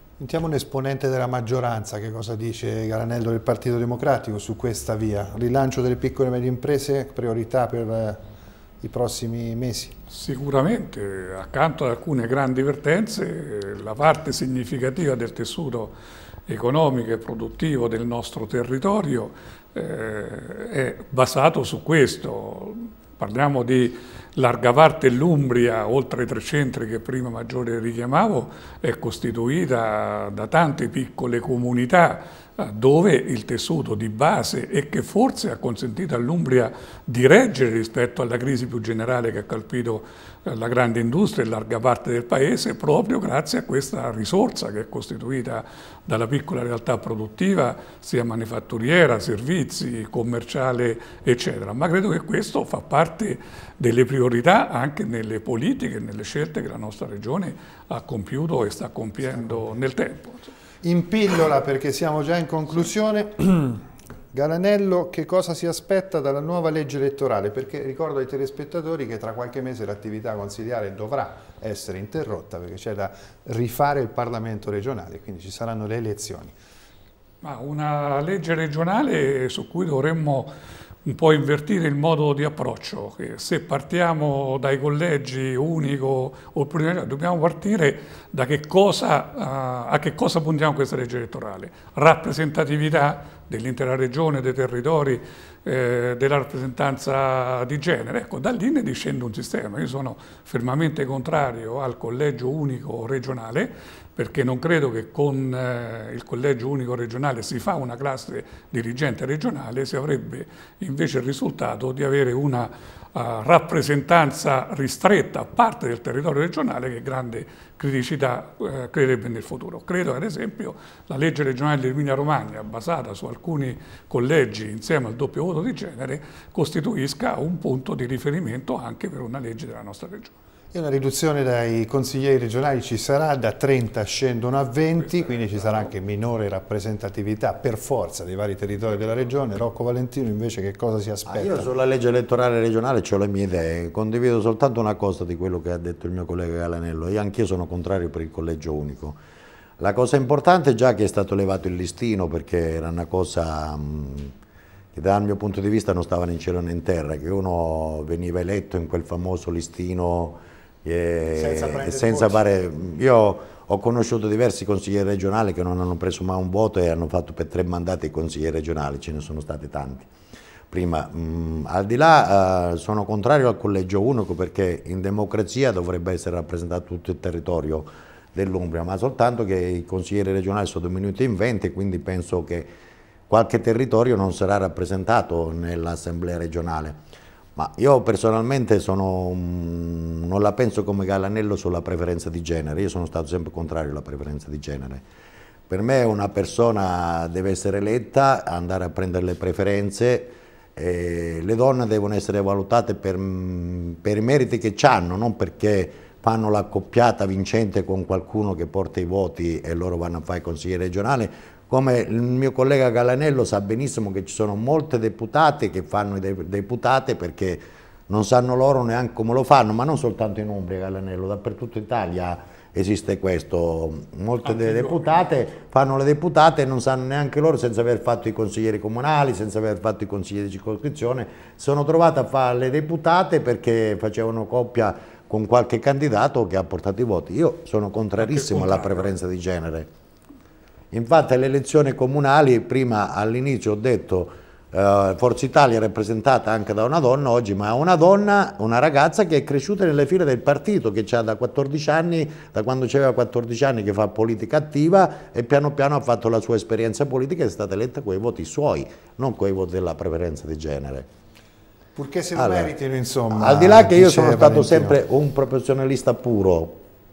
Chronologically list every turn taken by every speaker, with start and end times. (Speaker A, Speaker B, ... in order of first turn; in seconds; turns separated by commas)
Speaker A: 0.2-8.2, Speaker A: 8.8-9.9, Speaker B: 10.1-15.9, Speaker B: 16.5-60.5, Speaker A: 60.8-63.8, Speaker A: 64.3-76.5, Speaker B: 77.4-80.5, Speaker B: 81.0-130.3, Speaker A: 130.7-141.7, Speaker B: 135.2-135.9, Speaker C: 141.3-149.2, Speaker C: 149.8-154.3, Speaker C: 154.9-170.1, Speaker A: 161.3-162.5, Speaker C: 170.7-182.7, Speaker C: 183.3-187.0, Speaker C: 187.6-195.1, Speaker C: 195.7-239.9, Speaker B: 238.3-239.1, Speaker C: 240.9-261.1, Speaker A: 262.0-265.0, Speaker C: 262.4-262.7, Speaker C: 263.3-266.8